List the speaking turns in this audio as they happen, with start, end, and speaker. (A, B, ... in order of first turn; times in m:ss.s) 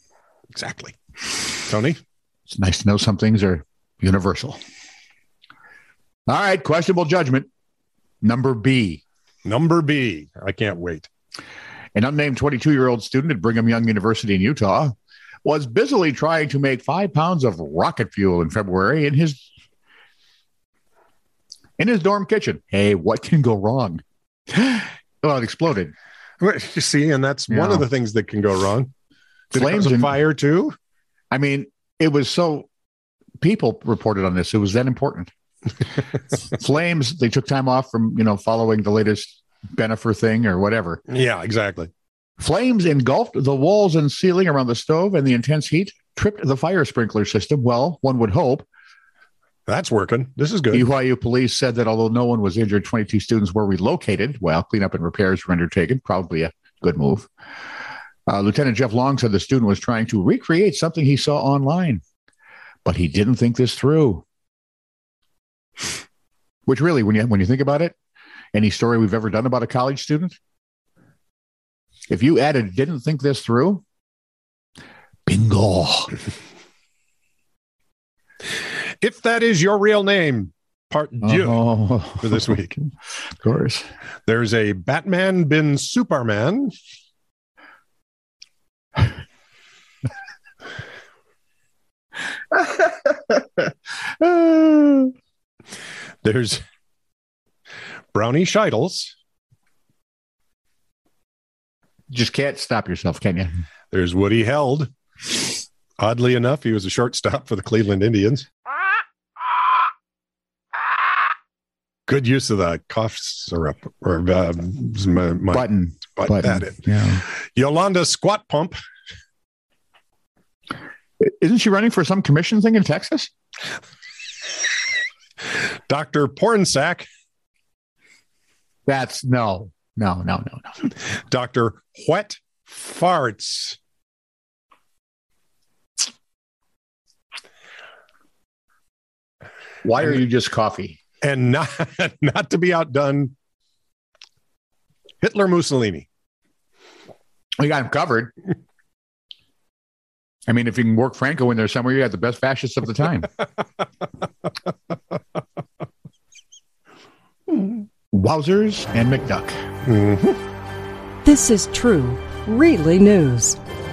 0:00.5-0:01.0 A
0:01.6-0:02.0 A
0:02.5-0:04.6 B
0:06.3-0:07.5 B
0:08.2-0:09.0 B
0:09.4-0:11.1 A
0:12.0-0:19.5 B
0:21.8-0:25.9 B
0:26.4-0:28.9 A
0:27.5-0:27.9 B
0:29.5-0:30.2 B
0:29.5-0:30.8 A
0:31.3-0:32.7 B
0:33.4-0:35.3 B
0:36.5-0:41.0 B
0:41.1-0:41.9 A
0:42.4-0:48.7 B
0:49.7-0:50.9 A
0:50.7-0:57.3 B
0:58.3-1:02.0 B
1:02.8-1:04.2 B
1:06.7-1:08.0 B
1:08.5-1:10.4 B
1:12.1-1:13.8 B
1:15.3-1:16.1 B
1:19.0-1:21.7 A
1:21.2-1:22.9 B
1:22.2-1:22.7 A
1:23.4-1:23.8 B
1:24.3-1:26.7 A
1:34.2-1:35.1 B
1:36.2-1:36.6 A
1:38.1-1:39.2 A
1:42.1-1:43.5 B
1:43.9-1:44.9 A
1:46.0-1:48.5 A
1:52.1-1:58.8 A
1:55.5-1:57.2 B
2:01.2-2:03.3 B
2:05.5-2:07.1 A
2:08.9-2:10.9 B
2:11.1-2:13.8 A
2:19.8-2:21.0 B
2:21.2-2:23.4 A
2:25.2-2:26.1 A
2:27.6-2:28.3 B
2:30.5-2:33.3 B
2:38.1-2:39.6 B
2:39.9-2:40.4 A
2:41.2-2:43.6 C